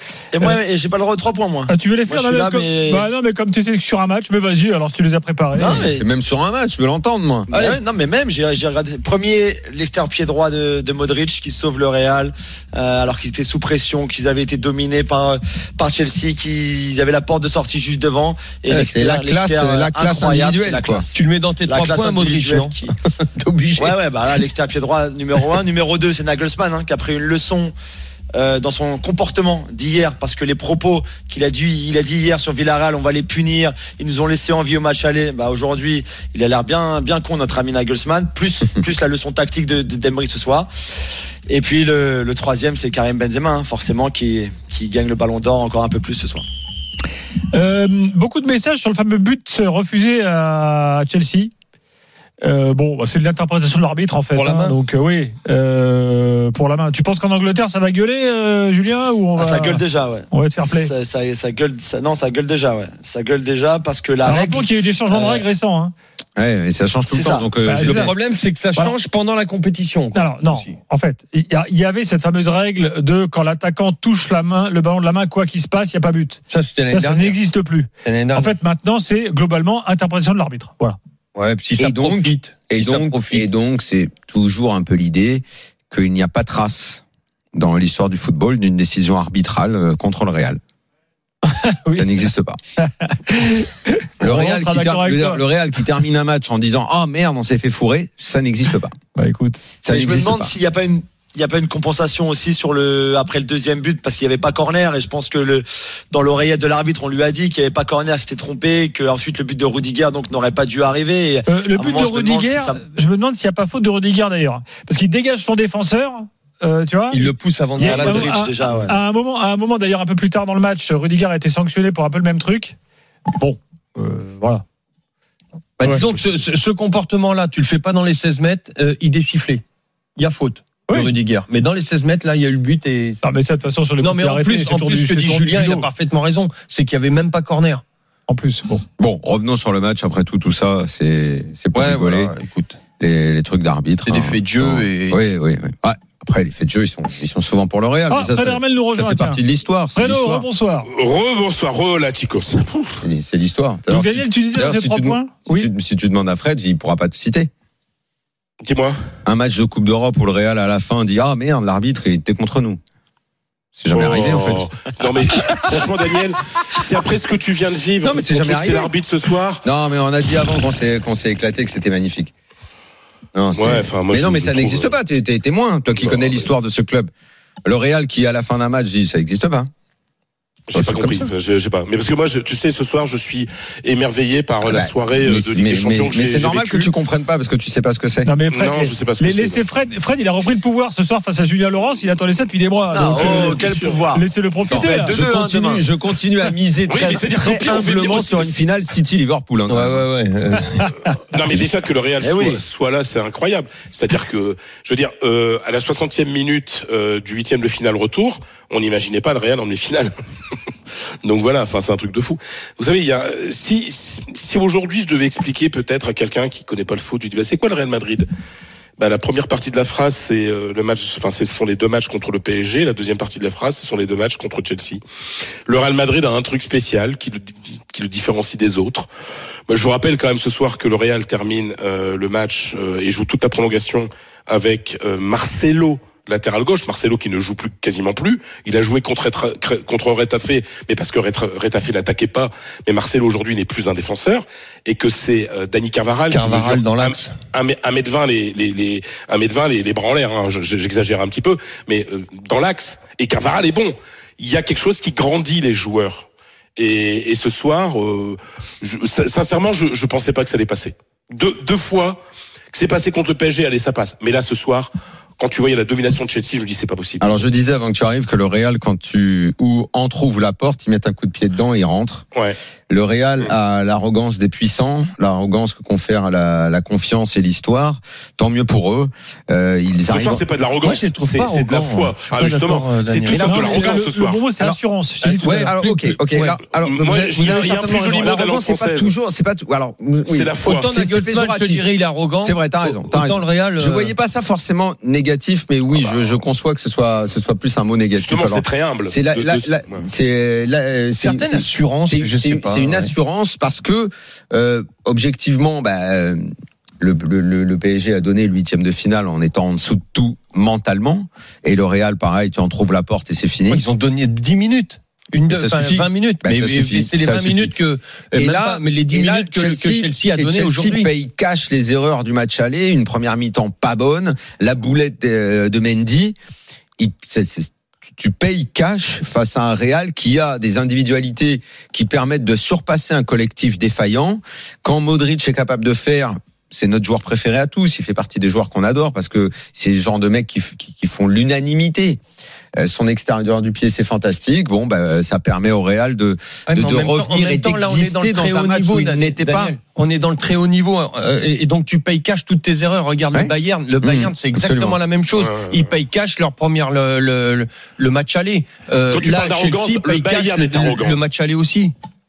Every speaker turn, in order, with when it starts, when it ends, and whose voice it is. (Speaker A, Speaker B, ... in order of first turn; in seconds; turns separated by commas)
Speaker A: 0.3-3.0, Speaker B: 1.7-5.8, Speaker A: 5.5-6.0, Speaker C: 5.7-7.8, Speaker A: 7.5-22.9, Speaker C: 18.7-21.0, Speaker D: 21.1-22.9, Speaker C: 23.4-23.9, Speaker A: 23.8-27.7, Speaker A: 28.3-40.7, Speaker A: 41.5-46.4, Speaker B: 47.5-51.5, Speaker B: 52.4-59.8, Speaker D: 54.3-54.7, Speaker A: 59.4-65.4, Speaker B: 60.3-60.9, Speaker B: 64.2-65.9, Speaker C: 66.4-68.1, Speaker A: 67.1-67.5, Speaker B: 67.6-68.1, Speaker D: 67.7-70.8, Speaker B: 70.1-81.0, Speaker D: 76.5-77.4, Speaker D: 78.0-78.5, Speaker D: 81.3-83.5, Speaker C: 81.8-87.0, Speaker C: 87.5-90.6, Speaker B: 91.5-92.1, Speaker C: 91.9-92.6, Speaker B: 92.8-95.4, Speaker C: 94.2-98.9, Speaker B: 99.1-99.7, Speaker C: 99.8-100.5, Speaker A: 99.9-112.8, Speaker B: 111.5-122.8, Speaker D: 117.1-118.3, Speaker A: 117.8-119.0, Speaker B: 123.3-124.6, Speaker D: 125.8-129.6, Speaker D: 130.2-133.2, Speaker B: 133.2-135.9, Speaker D: 134.0-137.8, Speaker B: 138.3-138.8, Speaker C: 139.0-142.3, Speaker D: 141.7-142.8, Speaker C: 143.0-150.5, Speaker D: 144.0-145.2, Speaker B: 148.1-149.4, Speaker B: 149.9-150.9, Speaker E: 150.9-153.0, Speaker C: 153.0-157.5, Speaker B: 153.9-155.7, Speaker E: 158.6-158.9, Speaker C: 159.2-162.8, Speaker C: 163.8-164.7, Speaker E: 163.9-169.6, Speaker C: 168.0-168.9, Speaker C: 169.6-172.3, Speaker C: 173.3-177.1, Speaker E: 173.5-174.9, Speaker E: 175.9-176.5, Speaker C: 177.6-179.7, Speaker E: 180.7-186.9, Speaker C: 180.7-181.3, Speaker C: 184.6-188.3, Speaker B: 188.2-195.2, Speaker E: 188.5-189.6, Speaker A: 192.9-195.8, Speaker E: 193.1-194.0, Speaker C: 194.7-200.0, Speaker E: 196.9-198.6, Speaker D: 199.7-200.9, Speaker E: 201.3-210.1, Speaker A: 202.2-202.6, Speaker E: 211.2-218.3, Speaker E: 219.0-225.0, Speaker E: 225.7-229.1, Speaker E: 229.7-262.2, Speaker D: 246.3-247.3, Speaker E: 262.7-267.3, Speaker C: 267.2-272.2, Speaker C: 272.9-280.4, Speaker E: 280.0-284.4, Speaker D: 280.8-284.0, Speaker B: 283.3-285.7, Speaker D: 285.2-286.6, Speaker C: 285.4-291.9, Speaker E: 286.7-289.1, Speaker E: 290.2-290.9, Speaker D: 290.6-294.1, Speaker C: 292.4-306.5, Speaker E: 295.9-296.2, Speaker E: 298.1-300.0, Speaker D: 301.2-303.1, Speaker C: 307.0-313.8, Speaker D: 313.7-321.1, Speaker C: 315.5-317.7, Speaker C: 318.3-326.4, Speaker C: 327.0-342.2, Speaker C: 342.8-349.8, Speaker D: 346.7-361.9, Speaker C: 353.3-355.0, Speaker E: 355.3-355.9, Speaker E: 359.1-361.2